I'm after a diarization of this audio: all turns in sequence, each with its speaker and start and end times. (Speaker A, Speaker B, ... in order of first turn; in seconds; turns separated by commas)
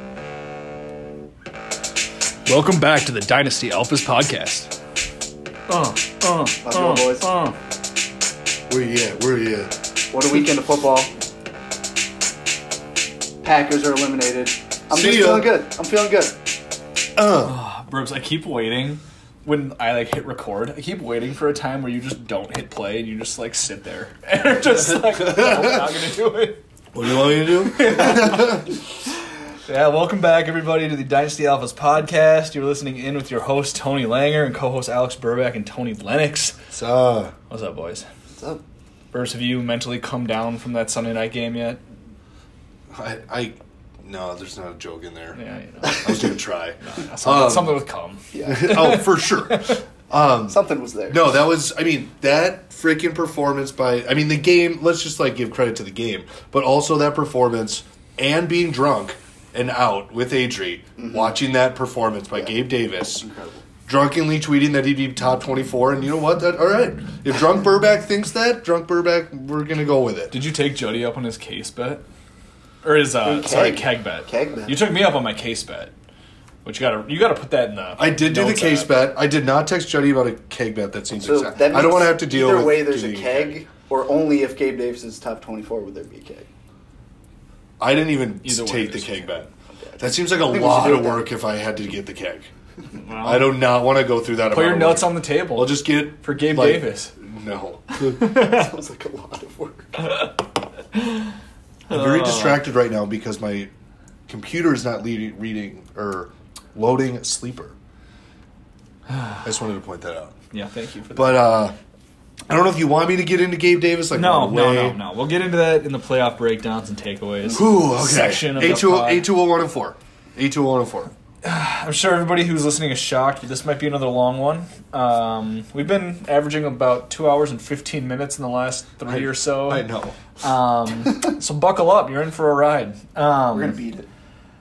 Speaker A: 2.5-4.7, Speaker A: 5.7-7.5, Speaker B: 6.6-7.3, Speaker C: 8.7-9.7, Speaker B: 10.1-11.1, Speaker B: 13.4-16.4, Speaker C: 14.9-15.6, Speaker C: 17.1-17.6, Speaker A: 17.4-26.6, Speaker C: 25.0-25.9, Speaker C: 26.9-28.7, Speaker A: 27.6-28.6, Speaker A: 29.6-36.5, Speaker C: 36.7-37.3, Speaker A: 37.5-38.0, Speaker A: 39.1-41.8, Speaker C: 42.9-47.8, Speaker A: 45.3-46.3, Speaker A: 46.8-49.8, Speaker B: 48.3-48.8, Speaker C: 48.4-63.3, Speaker B: 50.5-51.4, Speaker B: 63.2-63.6, Speaker C: 63.9-70.3, Speaker A: 70.3-72.0, Speaker A: 72.8-75.9, Speaker B: 73.2-74.8, Speaker A: 76.6-79.0, Speaker C: 78.0-83.6, Speaker B: 81.2-86.5, Speaker C: 87.8-92.5, Speaker A: 88.4-89.3, Speaker B: 89.8-91.3, Speaker A: 93.0-93.6, Speaker C: 93.2-98.4, Speaker A: 94.5-97.1, Speaker A: 97.9-98.7, Speaker B: 98.3-100.2, Speaker A: 100.9-101.2, Speaker A: 101.9-102.6, Speaker C: 101.9-103.7, Speaker C: 104.3-107.8, Speaker A: 109.1-109.4, Speaker C: 109.4-110.3, Speaker A: 110.5-111.5, Speaker C: 111.1-111.8, Speaker C: 112.5-115.0, Speaker A: 114.1-119.3, Speaker C: 117.5-121.1, Speaker A: 121.4-129.9, Speaker C: 129.1-130.2, Speaker A: 130.4-133.8, Speaker B: 133.5-134.1